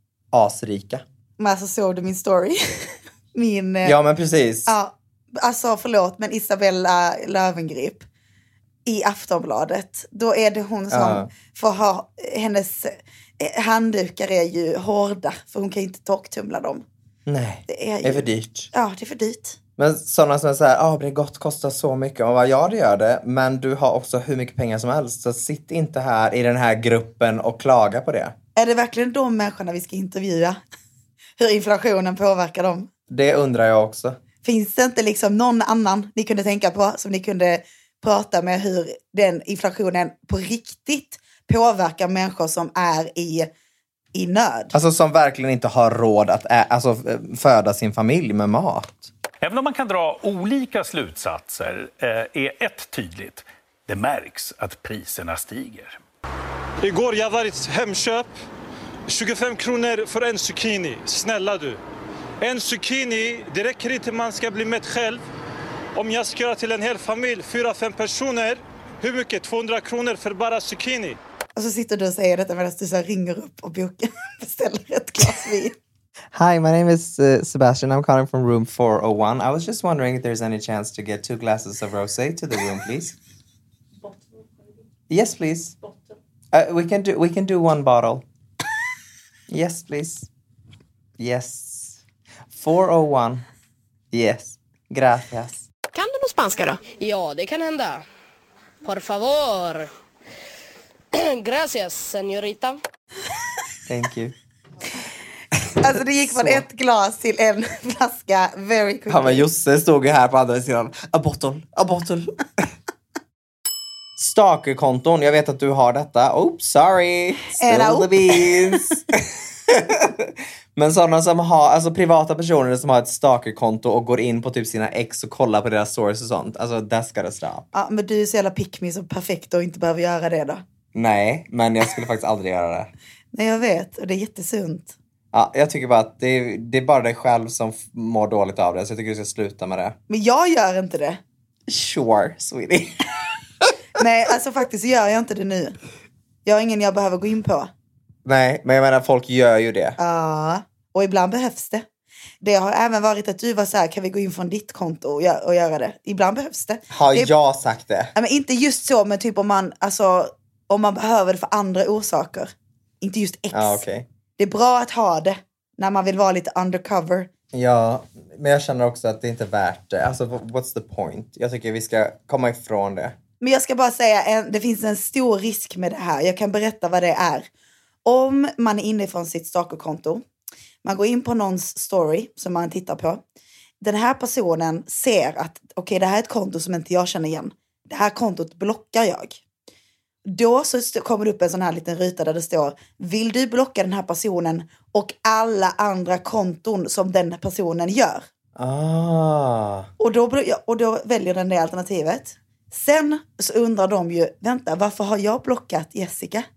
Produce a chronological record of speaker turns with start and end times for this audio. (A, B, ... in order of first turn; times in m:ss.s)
0:00.3-0:01.0 A
0:01.4-0:02.6 B
0:03.3-0:03.9 B
0:03.8-0:04.7 A
0:04.6-0:08.0 B
0:08.8-0:16.8 B
0:10.9-0:11.3 A
0:17.2-0:18.7 A
0:17.7-0:19.6 B
0:19.8-0:28.3 A
0:28.6-0:30.6 B
0:31.4-0:32.9 B
0:33.1-0:34.2 A
0:34.4-0:43.5 B
0:44.1-0:44.7 B
0:44.7-0:49.1 A
0:49.4-0:56.0 C
0:56.8-0:58.3 D
0:59.1-1:01.8 D
1:02.4-1:05.2 D
1:06.0-1:11.2 D
1:11.6-1:15.8 B
1:16.3-1:23.2 A
1:25.1-1:25.8 A
1:26.5-1:28.2 A
1:29.5-1:30.3 A
1:31.2-1:33.4 A
1:34.1-1:35.6 A
1:35.9-1:38.0 E
1:38.8-1:39.9 E
1:41.1-1:42.8 E
1:43.9-1:44.3 A
1:45.8-1:49.4 B
1:46.2-1:46.6 A
1:49.1-1:52.4 A
1:54.2-2:07.7 A
1:57.6-1:58.9 B
2:07.7-2:10.6 B
2:10.9-2:12.9 A
2:13.3-2:15.0 B
2:15.3-2:20.0 A
2:20.1-2:21.2 B
2:21.7-2:22.9 A
2:24.0-2:25.7 B
2:26.4-2:27.7 B
2:28.2-2:30.0 A
2:30.0-2:31.8 B
2:32.4-2:37.3 B
2:36.9-2:38.1 A
2:38.2-2:43.8 B
2:43.5-2:44.1 A
2:44.4-2:47.3 B
2:47.5-2:53.2 A
2:53.4-2:57.5 B
2:58.0-3:00.2 B
3:00.8-3:03.2 B
3:03.8-3:09.4 B
3:10.2-3:18.2 B
3:18.6-3:19.9 A
3:20.0-3:26.5 B